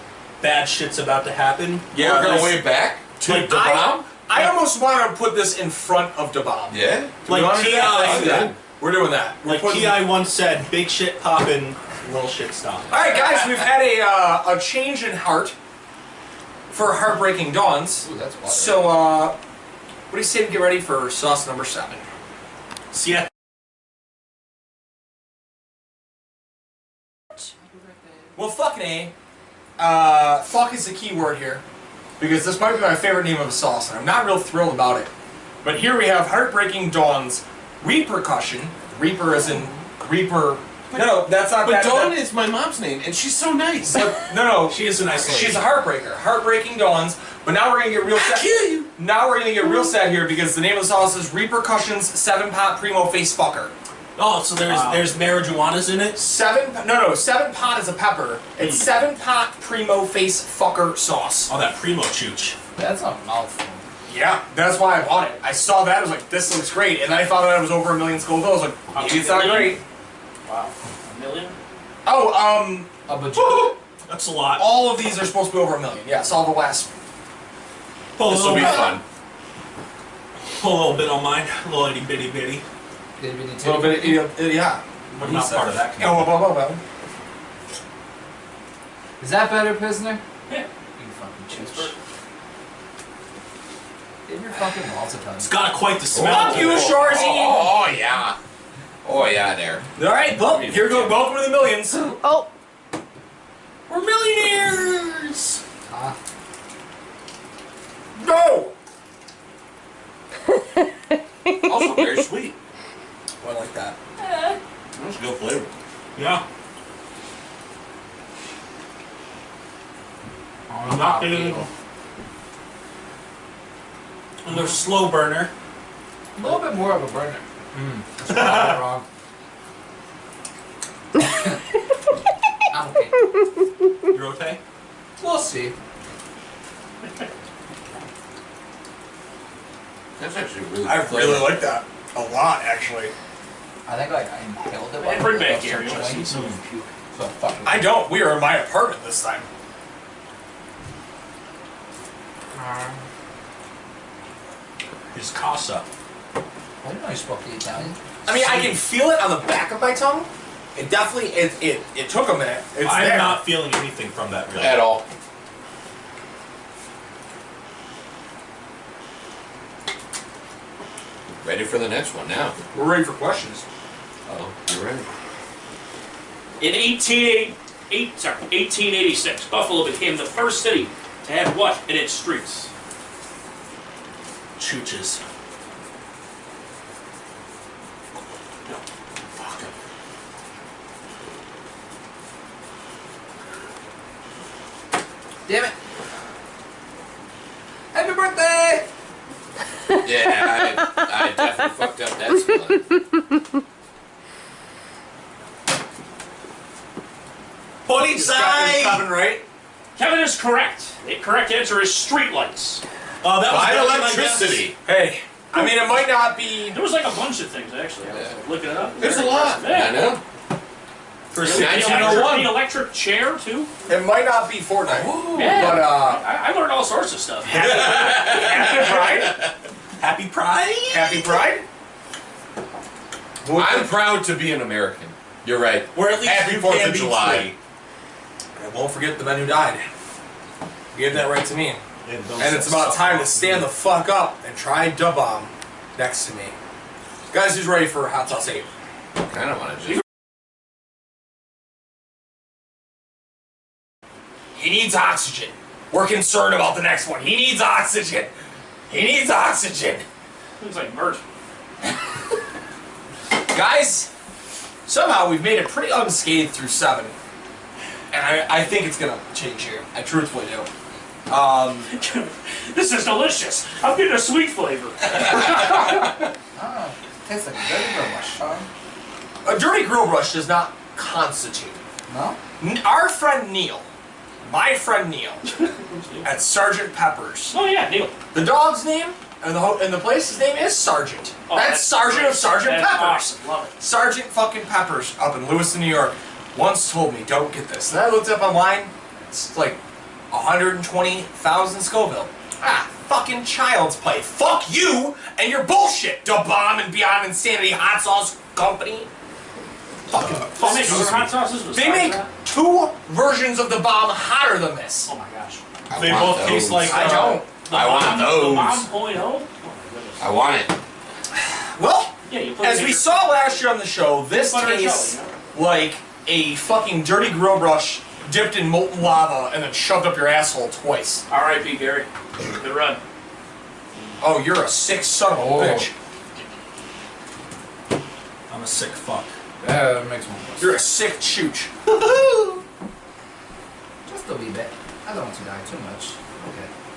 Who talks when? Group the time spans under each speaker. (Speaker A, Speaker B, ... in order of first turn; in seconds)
Speaker A: 0.4-2.6, 7.3-8.5, 9.4-12.9, 44.5-45.7, 54.1-56.2, 58.6-58.9, 61.5-62.6, 73.3-74.7, 78.2-79.0, 80.6-82.6, 85.1-86.4, 95.4-97.0, 116.1-116.4, 120.9-121.7, 124.4-125.5, 128.3-128.8, 134.1-134.6, 155.1-155.9, 158.3-158.8, 162.8-164.9, 184.6-185.2, 207.9-209.1, 213.2-214.7, 221.3-222.3, 230.0-231.4, 235.9-237.5, 242.1-243.7, 310.1-311.3, 315.9-317.4, 338.5-339.3, 341.9-342.6
Speaker B: 1.9-4.2, 6.7-8.6, 40.9-44.1, 48.1-48.9, 78.2-79.0, 96.1-98.4, 99.0-101.2, 111.6-112.6, 114.9-115.7, 140.2-141.6, 164.6-165.1, 171.4-172.6, 174.3-175.1, 200.0-202.9, 213.5-214.8, 219.0-220.2, 221.4-222.6, 224.9-225.9, 227.5-229.4, 233.5-237.6, 249.2-250.0, 315.9-318.9, 320.2-320.8
Speaker C: 3.2-10.1, 12.9-15.6, 16.7-19.4, 20.1-22.0, 28.4-29.1, 29.8-31.6, 32.2-35.1, 35.6-42.2, 43.9-53.7, 56.1-61.5, 64.1-69.8, 72.0-72.9, 74.5-76.9, 83.6-86.8, 96.2-97.7, 100.0-102.1, 103.9-105.6, 108.1-108.8, 113.4-114.0, 140.8-143.1, 147.6-149.5, 158.3-163.5, 172.7-173.6, 208.0-209.4, 213.5-213.8, 214.8-216.8, 223.9-226.2, 228.2-229.4, 230.9-231.6, 233.4-234.0, 238.6-239.8, 240.9-241.8, 242.4-246.6, 247.3-248.7, 254.5-258.3, 258.9-260.1, 263.5-264.1, 264.9-267.1, 268.1-270.7, 271.3-271.9, 279.4-281.8, 282.6-283.9, 284.4-285.5, 286.2-287.6, 288.3-299.8, 300.3-309.1, 310.1-311.1, 311.7-315.1, 316.9-317.5, 321.7-331.2, 334.2-335.9, 340.6-341.7
Speaker D: 18.0-19.0, 62.8-63.8, 73.1-73.8, 83.2-84.3, 89.2-90.2, 91.0-91.9, 94.3-95.7, 105.9-106.2, 120.7-121.7, 126.4-129.1, 132.7-133.2, 135.2-135.8, 143.9-146.6, 147.1-148.0, 156.8-158.0, 195.5-195.7, 197.9-198.9, 276.6-278.7, 282.1-282.4, 335.3-335.9, 339.6-340.8, 344.1-346.7
Speaker E: 68.9-69.8, 70.4-71.6, 91.5-91.9, 145.0-146.9, 176.6-182.7, 210.0-212.8, 216.7-220.2, 221.4-223.7, 225.3-229.3, 260.6-261.2, 271.9-275.7, 285.6-286.3, 287.5-288.2, 291.5-293.7, 310.6-312.3, 315.1-315.6, 317.5-320.4, 322.3-323.7, 324.3-325.3, 331.3-333.0
Speaker F: 102.2-102.5, 111.5-112.3, 114.3-114.5, 200.3-201.0